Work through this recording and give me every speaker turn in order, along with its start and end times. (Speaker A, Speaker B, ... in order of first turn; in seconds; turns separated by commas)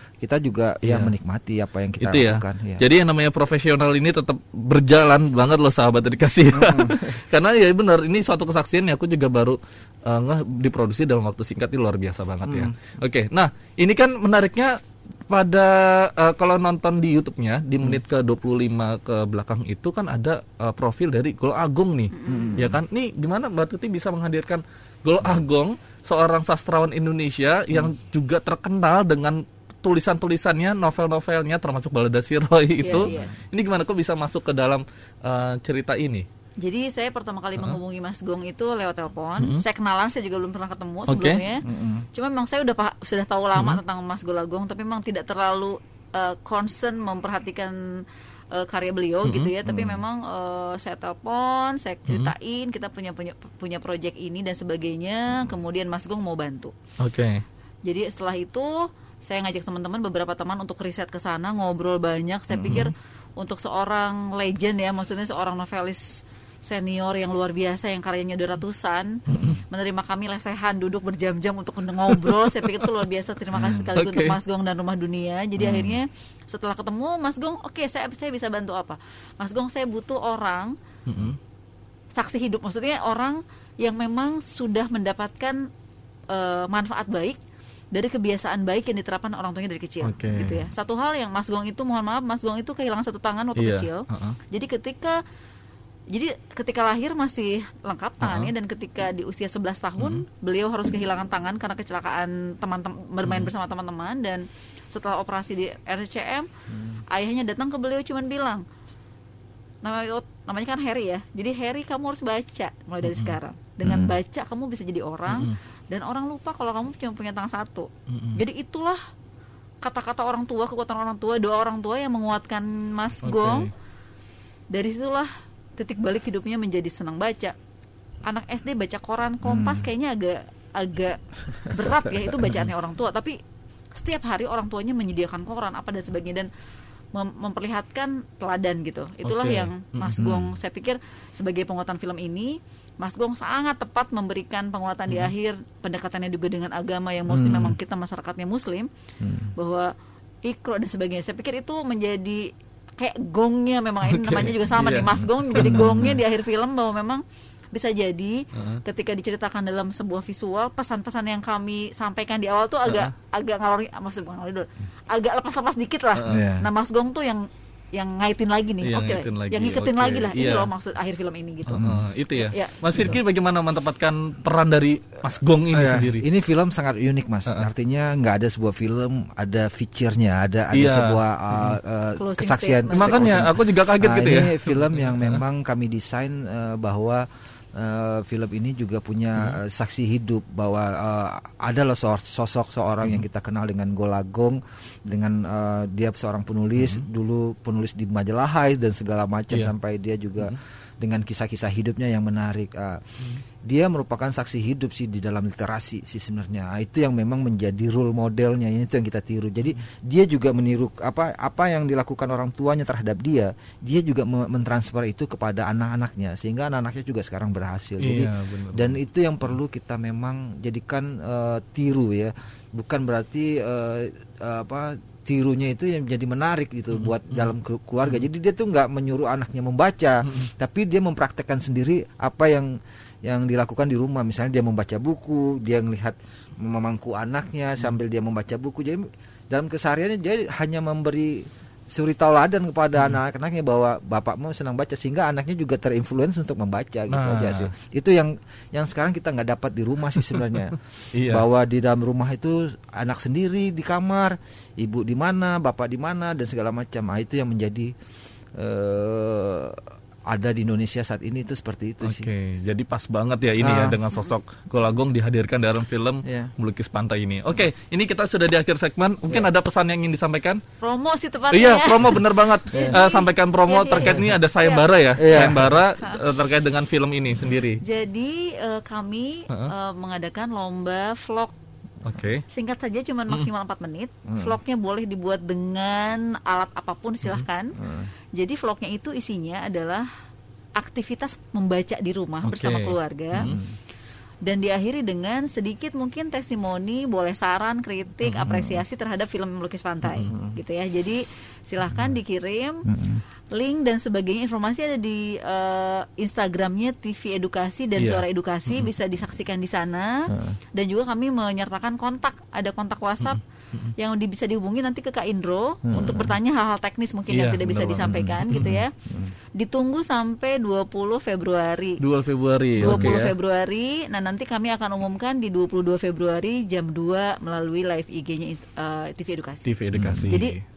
Speaker A: 0.2-2.9, Speaker B: 0.8-1.1, Speaker B: 2.0-14.8, Speaker A: 6.5-7.2, Speaker A: 12.4-12.7, Speaker B: 15.3-36.3, Speaker C: 22.1-22.6, Speaker A: 22.3-22.8, Speaker C: 32.8-33.3, Speaker A: 32.9-33.3, Speaker C: 36.6-41.6, Speaker B: 41.1-41.4, Speaker A: 41.6-42.1, Speaker C: 42.1-47.8, Speaker C: 48.5-56.7, Speaker B: 49.2-49.5, Speaker A: 49.6-50.0, Speaker B: 57.0-57.4, Speaker C: 57.9-80.8, Speaker A: 62.5-62.9, Speaker B: 69.3-69.6, Speaker B: 73.5-74.4, Speaker A: 75.6-75.9, Speaker B: 81.1-81.4, Speaker C: 82.2-85.6, Speaker C: 86.3-87.4, Speaker C: 87.9-95.2, Speaker B: 90.0-90.7, Speaker B: 93.6-94.4, Speaker C: 96.1-106.5, Speaker B: 98.2-98.5, Speaker B: 100.0-100.2, Speaker B: 103.2-103.5, Speaker A: 106.7-107.0, Speaker C: 107.1-108.6, Speaker C: 109.8-119.0, Speaker B: 113.0-113.3, Speaker A: 113.8-114.1, Speaker B: 115.3-115.6, Speaker B: 118.1-118.4, Speaker C: 119.8-123.7, Speaker B: 123.2-123.7, Speaker C: 124.7-127.5, Speaker C: 128.3-131.2, Speaker A: 129.4-129.9, Speaker C: 131.7-133.4, Speaker C: 134.0-136.5, Speaker C: 137.2-148.9, Speaker B: 139.2-140.3, Speaker A: 140.2-140.5, Speaker A: 147.3-147.8, Speaker A: 149.2-149.5, Speaker C: 149.6-149.9, Speaker C: 150.5-171.8, Speaker B: 154.1-156.0, Speaker A: 155.6-156.2, Speaker B: 158.6-158.8, Speaker B: 162.9-163.1, Speaker A: 166.2-166.7, Speaker B: 168.8-170.7, Speaker B: 171.7-176.2, Speaker A: 171.7-172.0, Speaker C: 172.4-172.8, Speaker A: 175.7-203.0, Speaker B: 180.7-181.7, Speaker C: 182.2-183.4, Speaker B: 182.9-185.4, Speaker B: 196.8-197.0, Speaker A: 203.6-250.8, Speaker B: 218.0-219.0, Speaker B: 226.9-227.5, Speaker B: 247.1-247.7, Speaker B: 251.2-251.4, Speaker A: 251.3-257.9, Speaker A: 258.6-259.8, Speaker A: 260.3-262.3, Speaker B: 262.0-270.6, Speaker A: 263.6-264.0, Speaker A: 266.2-266.5, Speaker C: 270.8-272.2, Speaker B: 271.5-277.8, Speaker C: 272.7-274.8, Speaker A: 275.2-275.7, Speaker C: 277.8-281.5, Speaker B: 282.1-282.4, Speaker C: 282.5-287.7, Speaker A: 284.3-284.6, Speaker A: 287.8-288.1, Speaker C: 288.4-290.1, Speaker C: 290.8-293.5, Speaker B: 292.4-293.6, Speaker A: 293.4-293.7, Speaker C: 294.4-302.9, Speaker A: 298.5-298.8, Speaker B: 300.1-300.3, Speaker A: 300.3-300.6, Speaker A: 302.9-303.2, Speaker C: 303.6-313.4, Speaker B: 308.0-308.2, Speaker B: 313.2-313.9, Speaker C: 314.0-318.9, Speaker A: 315.9-316.3, Speaker B: 317.3-318.8, Speaker A: 318.1-319.3, Speaker C: 319.6-322.0, Speaker B: 322.0-323.3, Speaker A: 322.8-323.2, Speaker C: 322.8-329.7, Speaker B: 329.7-330.6, Speaker A: 329.9-330.3, Speaker C: 330.3-330.6